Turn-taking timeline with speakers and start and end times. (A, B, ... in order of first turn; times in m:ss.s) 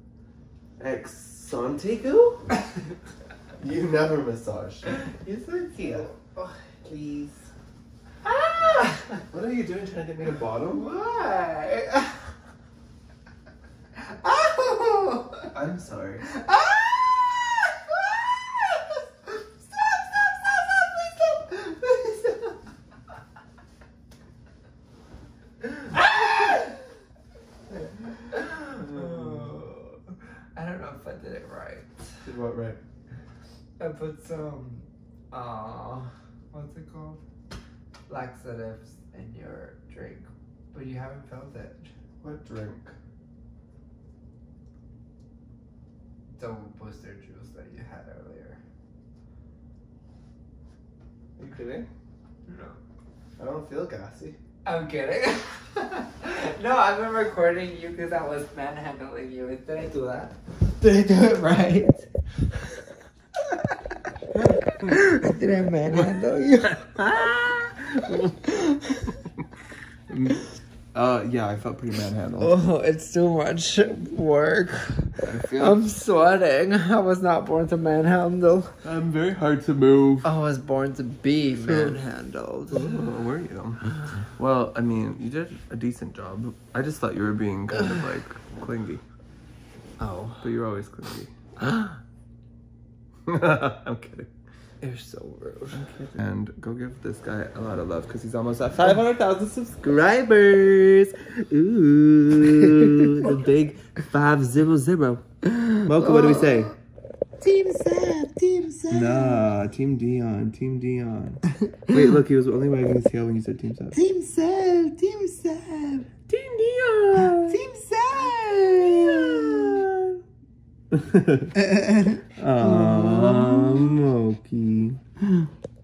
0:00.8-0:02.5 A
0:03.6-0:06.1 A
0:05.8-0:06.8 B
0:06.8-0:07.4 A
0:08.2-0:09.2 B
0:09.3-0:10.9 A
0:10.6-0:12.1 B
0:13.9-0:15.5 B
0:15.5-0:16.2 A
0:16.2-0:22.6 B
0:25.6-0:26.8 B
0:28.3-0:32.0 B
0:28.7-0:29.6 A
0:32.2-0:32.8 A
0:33.8-0:37.2 B
0:38.1-0:41.9 B
0:42.2-0:43.0 A
0:46.3-0:48.6 B
0:51.4-0:51.9 A
0:52.4-0:52.8 B
0:53.4-0:54.4 A
0:54.6-1:02.1 B
1:04.7-1:09.2 B
1:10.1-1:10.4 A
1:10.9-1:12.6 A
1:12.4-1:18.7 B
1:15.2-1:15.8 A
1:18.8-1:20.3 A
1:20.2-1:23.1 B
1:21.5-1:22.0 A
1:22.7-1:29.0 A
1:30.0-1:30.4 B
1:30.4-1:31.3 A
1:31.6-1:32.0 B
1:33.2-1:34.3 A
1:34.8-1:35.8 B
1:35.7-1:40.8 A
1:40.5-1:43.4 B
1:41.5-1:45.2 A
1:45.4-1:46.7 B
1:45.8-1:46.7 A
1:47.4-1:49.4 B
1:48.9-1:54.0 A
1:53.9-1:56.1 B
1:56.3-1:57.6 A
1:57.4-1:59.9 B
1:59.1-1:59.9 A
2:00.9-2:01.5 A
2:01.5-2:04.0 B
2:02.4-2:05.0 A